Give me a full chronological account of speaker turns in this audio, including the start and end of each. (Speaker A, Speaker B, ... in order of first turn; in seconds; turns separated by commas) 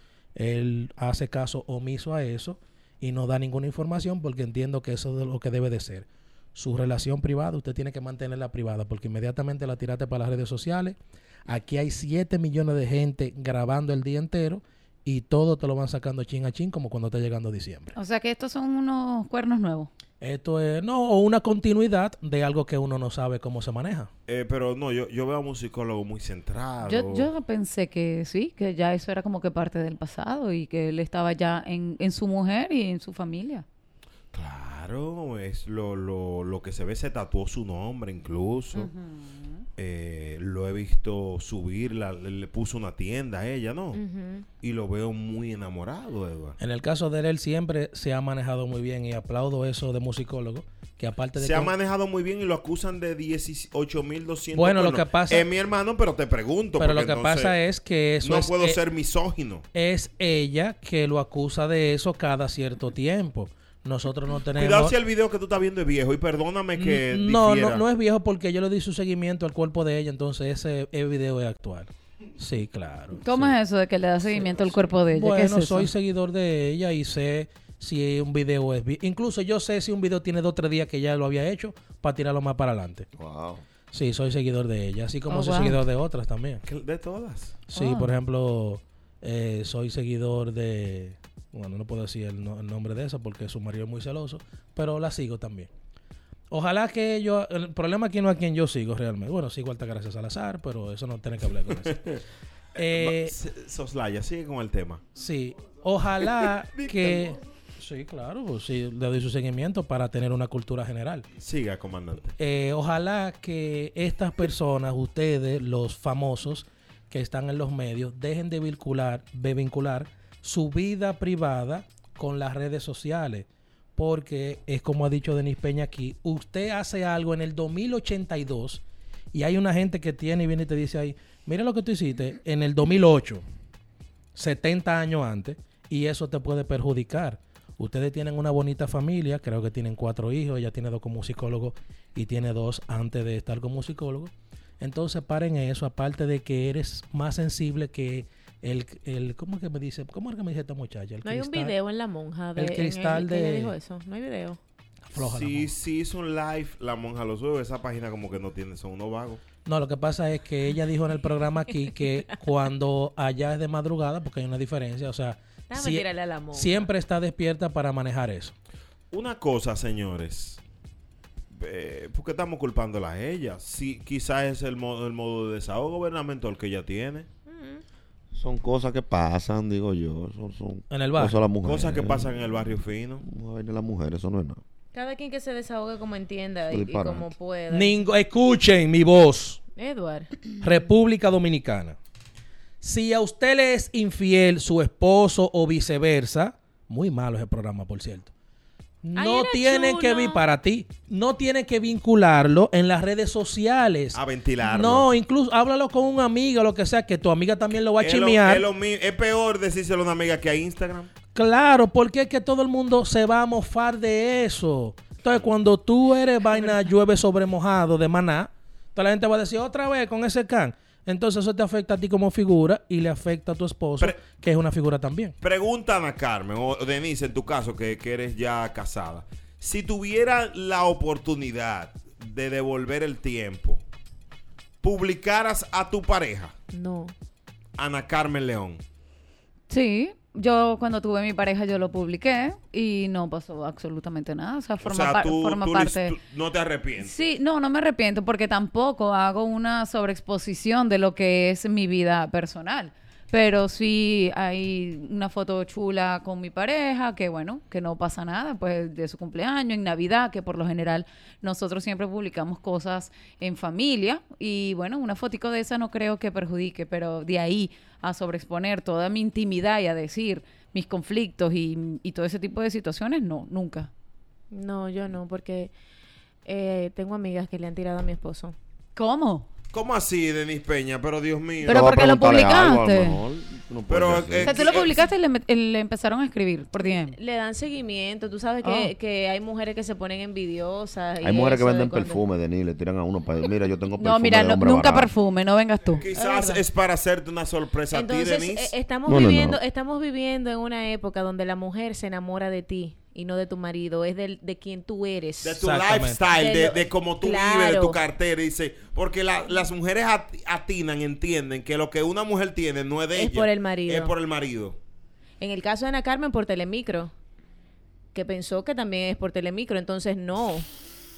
Speaker A: 0.4-17.9, Speaker B: 18.0-19.9, Speaker A: 20.2-24.1, Speaker C: 24.3-27.3, Speaker B: 26.8-33.6, Speaker C: 34.3-38.9, Speaker B: 38.8-39.6, Speaker C: 39.8-44.0, Speaker D: 43.9-44.5, Speaker C: 44.6-46.6, Speaker A: 46.6-51.7, Speaker C: 51.4-57.6, Speaker A: 54.5-55.5, Speaker A: 56.8-58.8, Speaker C: 58.2-59.6, Speaker A: 59.7-65.0, Speaker C: 64.6-67.8, Speaker A: 66.8-73.6, Speaker B: 73.2-75.9, Speaker A: 74.2-83.1, Speaker E: 83.1-83.6, Speaker A: 83.9-86.6, Speaker B: 85.3-85.8, Speaker C: 86.7-87.6, Speaker A: 87.7-95.7, Speaker B: 87.7-88.1, Speaker A: 96.5-102.0, Speaker C: 101.9-102.2, Speaker A: 102.8-103.3, Speaker C: 102.8-105.0, Speaker A: 105.2-111.3, Speaker C: 106.7-107.3, Speaker C: 111.4-112.3, Speaker A: 112.4-128.8, Speaker A: 129.3-133.4, Speaker A: 134.3-151.7, Speaker D: 151.2-154.6, Speaker A: 152.6-153.7, Speaker A: 155.1-155.7, Speaker C: 155.1-159.4, Speaker A: 159.6-168.5, Speaker D: 165.7-166.9, Speaker C: 169.1-170.6, Speaker C: 171.5-177.3, Speaker D: 177.5-177.8, Speaker E: 178.3-182.3, Speaker A: 180.9-181.4, Speaker C: 181.6-183.2, Speaker E: 183.2-184.6, Speaker D: 184.9-188.0, Speaker E: 186.7-187.3, Speaker A: 187.7-189.6, Speaker D: 189.8-190.3, Speaker A: 190.6-192.0, Speaker A: 192.8-198.3, Speaker A: 199.0-208.6, Speaker D: 199.2-200.4, Speaker C: 204.1-205.1, Speaker C: 208.0-211.1, Speaker A: 211.3-225.3, Speaker C: 225.4-233.8, Speaker C: 234.8-236.5, Speaker D: 236.7-237.1, Speaker C: 237.8-238.8, Speaker B: 239.7-246.1, Speaker C: 244.8-247.1, Speaker B: 247.0-273.9, Speaker D: 274.5-275.7, Speaker D: 276.4-278.6, Speaker B: 279.0-279.5, Speaker C: 279.7-281.9, Speaker B: 281.6-283.2, Speaker E: 281.6-284.6, Speaker C: 283.9-285.1, Speaker B: 284.4-287.2, Speaker D: 286.8-292.2, Speaker B: 288.6-288.9, Speaker E: 291.2-295.1, Speaker B: 294.0-296.1, Speaker C: 296.0-298.7, Speaker D: 296.1-296.6, Speaker D: 297.9-305.6, Speaker E: 299.1-299.6, Speaker C: 305.4-314.8, Speaker A: 305.6-306.2, Speaker D: 306.3-308.0, Speaker D: 313.1-314.1, Speaker D: 315.4-317.1, Speaker D: 318.1-320.7